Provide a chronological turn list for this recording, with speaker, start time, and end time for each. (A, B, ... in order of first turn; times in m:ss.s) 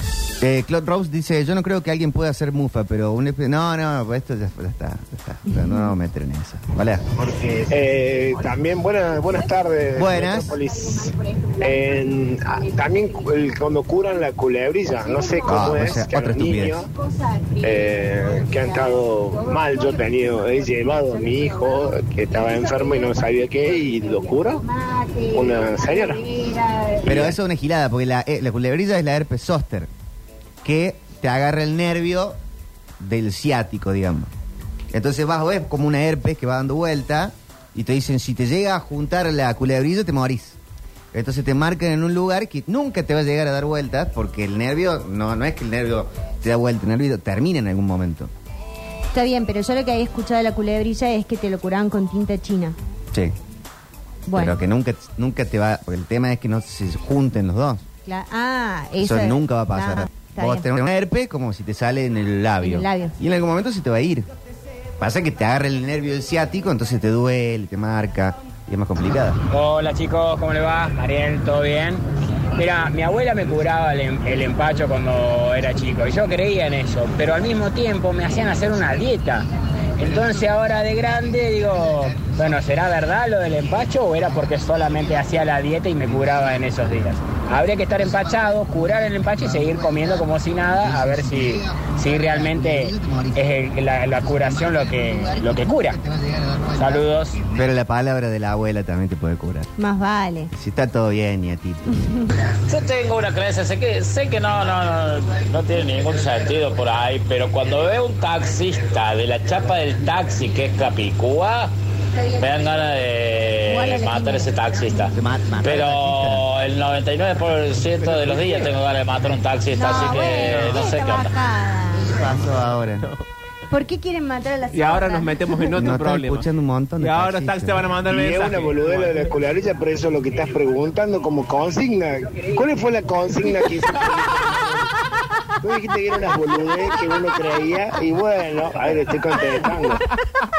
0:00.4-0:07.2 A
0:07.4-0:16.9 B
0:10.0-0:10.6 A
0:15.5-0:16.9 A
0:17.1-0:17.7 C
0:17.6-0:24.6 B
0:24.3-0:27.3 C
0:25.3-0:26.3 B
0:27.0-0:29.9 A
0:30.6-0:32.4 A
0:33.0-0:34.3 A
0:34.9-0:40.6 A
0:41.1-0:48.3 A
0:49.1-0:52.8 C
0:54.3-0:54.6 C
0:54.3-0:57.8 A
0:58.1-1:00.7 C
0:59.0-1:04.3 A
1:02.6-1:03.2 C
1:05.0-1:09.4 A
1:09.5-1:12.0 D
1:12.6-1:19.5 D
1:20.0-1:36.0 D
1:31.1-1:33.4 A
1:36.2-1:39.7 A
1:36.8-1:37.5 D
1:39.8-1:40.5 C
1:40.5-1:42.0 A
1:42.7-1:51.7 E
1:52.3-2:01.3 E
1:53.7-1:54.6 C
1:55.1-1:56.4 A
1:59.7-2:02.2 C
2:02.0-2:03.1 A
2:03.7-2:05.7 C
2:04.7-2:06.5 F
2:05.8-2:07.9 A
2:07.0-2:09.3 F
2:08.1-2:14.9 B
2:15.6-2:20.0 B